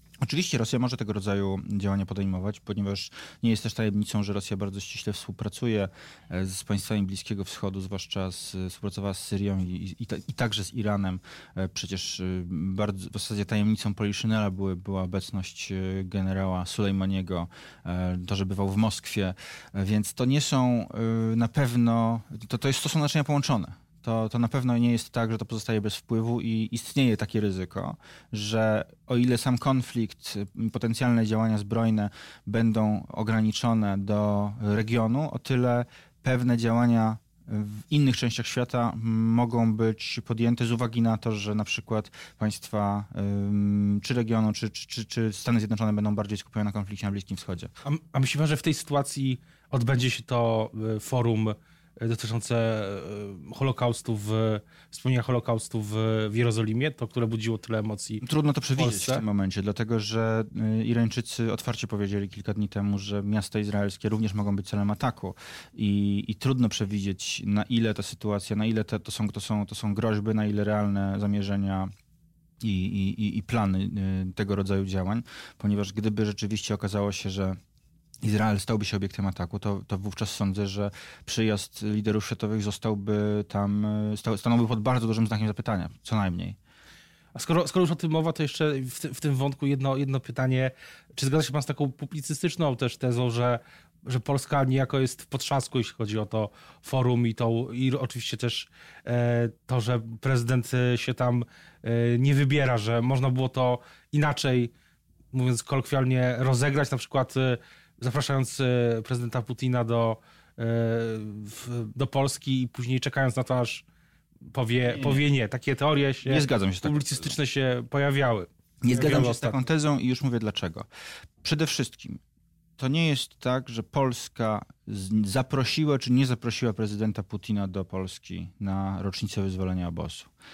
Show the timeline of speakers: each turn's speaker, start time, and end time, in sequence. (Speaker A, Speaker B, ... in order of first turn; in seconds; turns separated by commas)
Speaker A: 0.2-47.7, Speaker B: 47.8-58.2, Speaker A: 58.2-71.9, Speaker B: 58.8-59.2, Speaker A: 72.6-77.6, Speaker A: 78.2-86.6, Speaker B: 87.3-104.7, Speaker B: 105.3-113.8, Speaker B: 114.5-119.6, Speaker A: 114.9-115.2, Speaker A: 116.2-117.3, Speaker A: 118.8-120.8, Speaker A: 121.4-122.2, Speaker A: 122.8-130.3